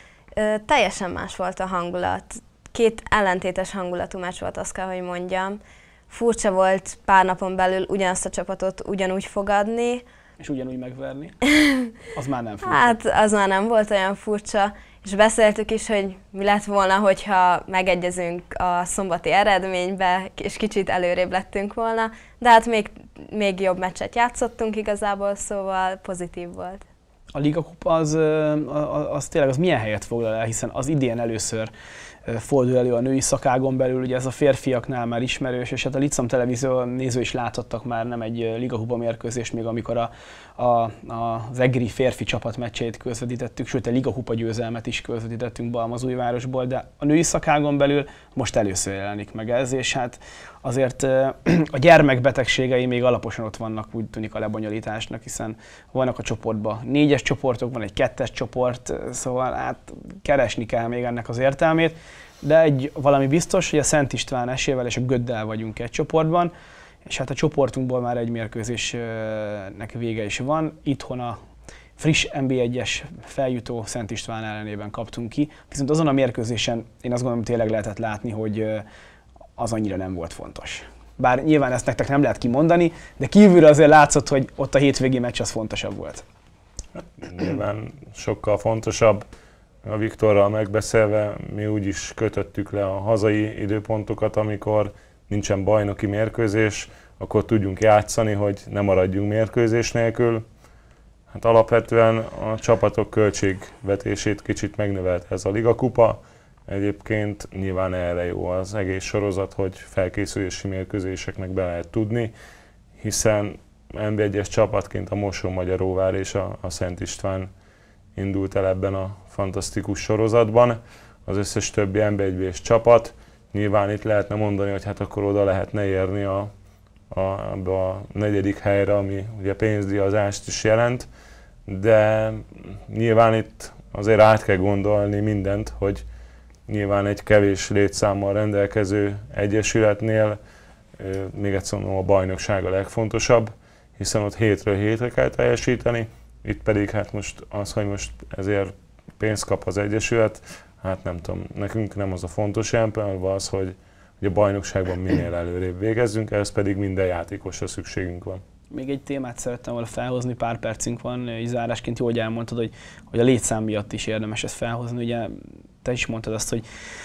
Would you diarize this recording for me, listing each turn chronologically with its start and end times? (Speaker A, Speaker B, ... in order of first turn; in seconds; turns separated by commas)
Speaker A: 0.3-10.0, Speaker B: 10.4-11.3, Speaker A: 11.5-11.9, Speaker B: 12.1-12.9, Speaker A: 12.6-26.8, Speaker B: 27.3-31.7, Speaker B: 32.2-66.5, Speaker B: 67.0-71.4, Speaker B: 72.0-78.8, Speaker B: 79.6-86.2, Speaker C: 86.9-89.2, Speaker C: 89.8-100.4, Speaker C: 101.3-112.3, Speaker C: 113.0-117.5, Speaker C: 118.2-126.5, Speaker C: 127.1-131.1, Speaker C: 131.7-136.0, Speaker C: 136.7-140.4, Speaker C: 141.0-158.4, Speaker B: 158.7-166.6